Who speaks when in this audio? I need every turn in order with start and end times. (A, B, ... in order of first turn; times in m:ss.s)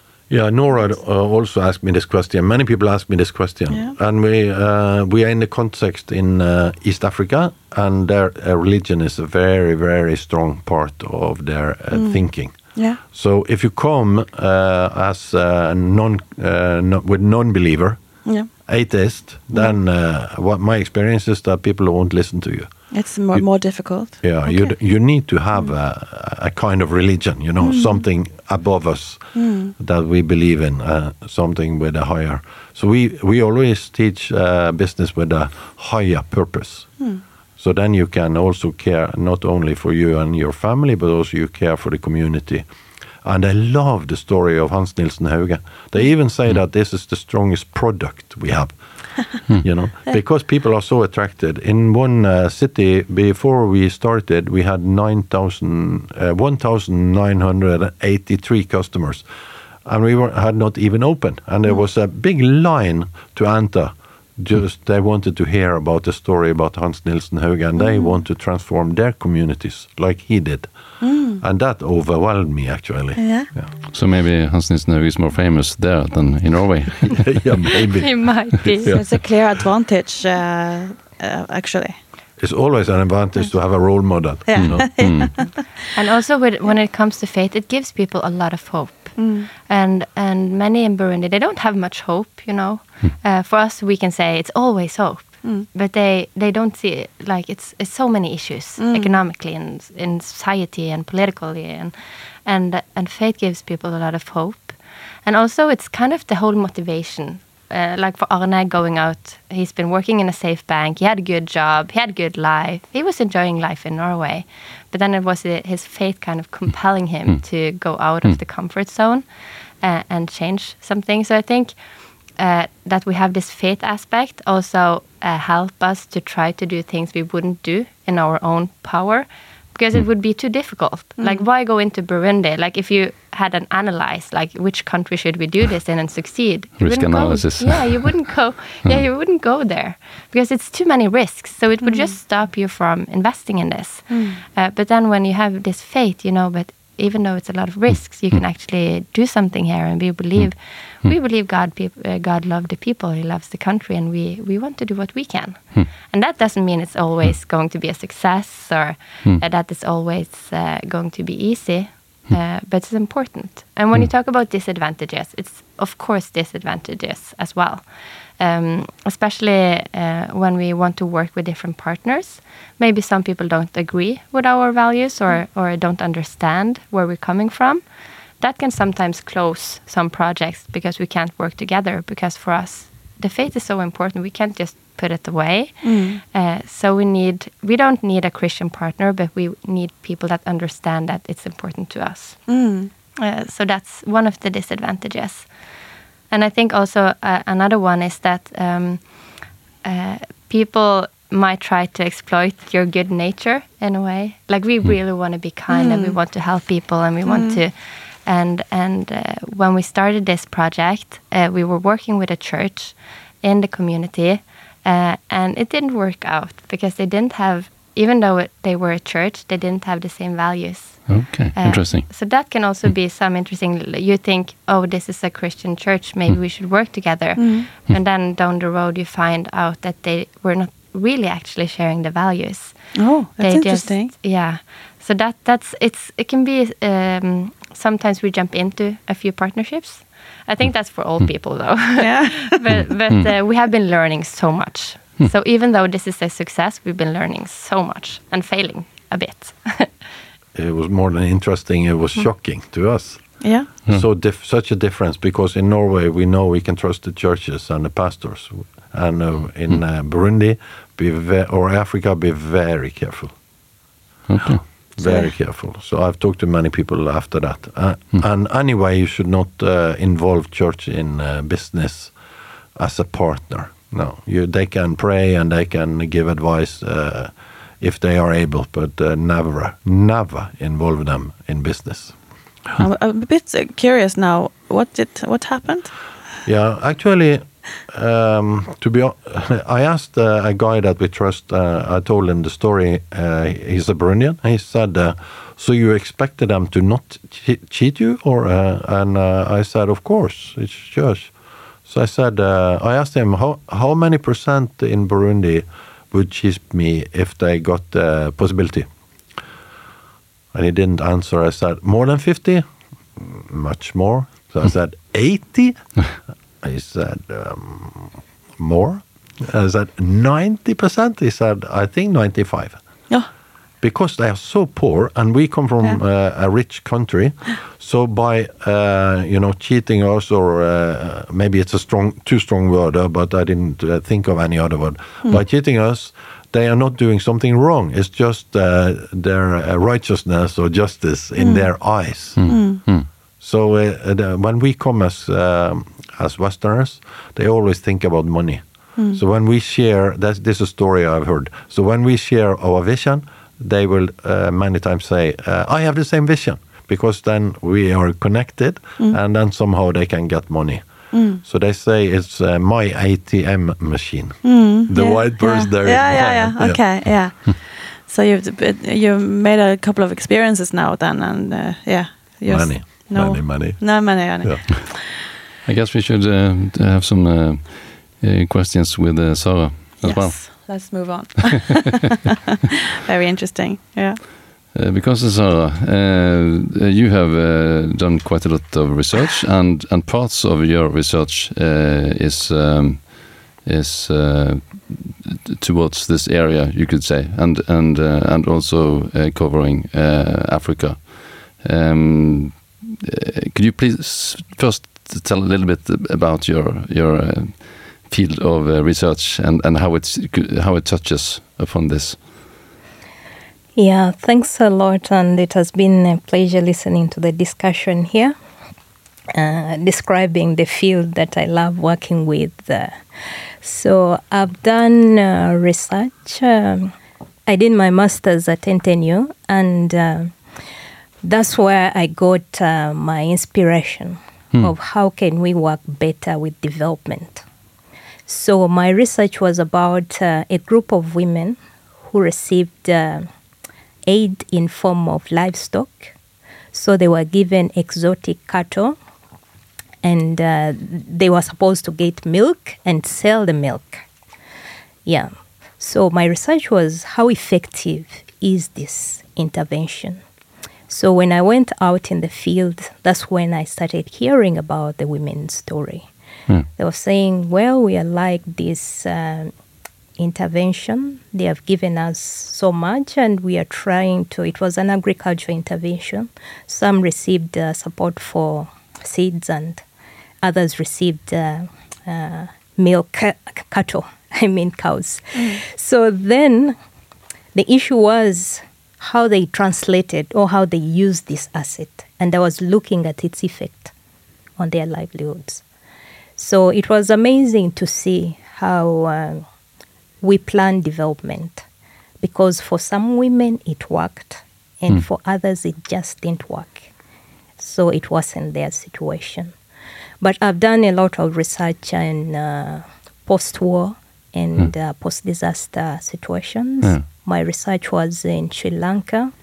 0:00.3-0:23.4 A
0:03.7-0:04.0 B
0:11.9-0:13.0 B
0:18.2-0:18.5 B
0:19.5-0:19.8 B
0:22.9-0:25.7 B
0:24.0-0:42.7 A
0:27.6-0:28.0 B
0:29.3-0:29.7 B
0:43.2-0:59.2 A
0:59.8-1:13.7 A
1:07.8-1:08.2 B
1:11.0-1:11.4 B
1:13.2-1:13.5 B
1:13.9-1:17.4 C
1:17.1-1:19.2 A
1:18.0-1:19.0 D
1:18.8-1:22.0 B
1:22.4-1:25.0 A
1:23.4-1:25.5 B
1:24.6-1:25.6 C
1:25.9-1:59.2 D
1:29.2-1:29.5 B
1:38.8-1:39.1 B
1:59.8-2:57.9 D
2:16.8-2:18.2 C
2:21.8-2:22.2 B
2:24.1-2:24.4 B
2:58.4-3:15.5 D
3:05.8-3:06.2 B
3:12.5-3:12.9 B
3:16.3-4:10.0 D
3:25.7-3:26.2 B
3:27.2-3:27.6 B
3:41.1-3:42.1 C
3:47.4-3:47.7 B
3:52.9-3:54.1 B
4:02.0-4:02.8 B
4:10.5-4:23.3 A
4:13.4-4:13.7 B
4:24.3-4:24.6 C
4:25.0-4:32.2 A
4:25.0-4:25.3 B
4:32.8-4:42.2 A
4:42.8-4:45.9 B
4:46.4-5:01.3 A
5:01.8-5:08.9 A
5:10.5-5:22.8 A
5:23.8-6:07.2 A
5:41.4-5:42.8 B
5:42.4-5:43.1 C
6:01.1-6:01.4 B
6:04.4-6:14.9 B
6:12.5-6:14.6 A
6:15.6-6:21.1 C
6:20.0-6:22.3 B
6:22.9-6:24.2 B
6:24.7-6:52.4 C
6:53.8-6:58.3 E
6:59.3-7:03.0 E
7:03.6-7:06.9 E
7:07.5-7:10.4 E
7:11.2-7:17.4 E
7:18.3-7:23.3 E
7:24.0-7:26.1 E
7:26.7-7:29.0 E
7:30.0-7:34.0 E
7:35.0-7:40.2 E
7:40.9-7:46.1 E
7:46.8-7:49.5 E
7:50.2-7:59.8 E
8:00.4-8:06.8 E
8:05.4-8:05.6 B
8:07.5-8:13.9 E
8:14.6-8:15.6 E
8:16.4-8:19.4 E
8:20.2-8:21.6 E
8:22.2-8:26.9 E
8:27.6-8:29.5 E
8:30.2-8:39.3 E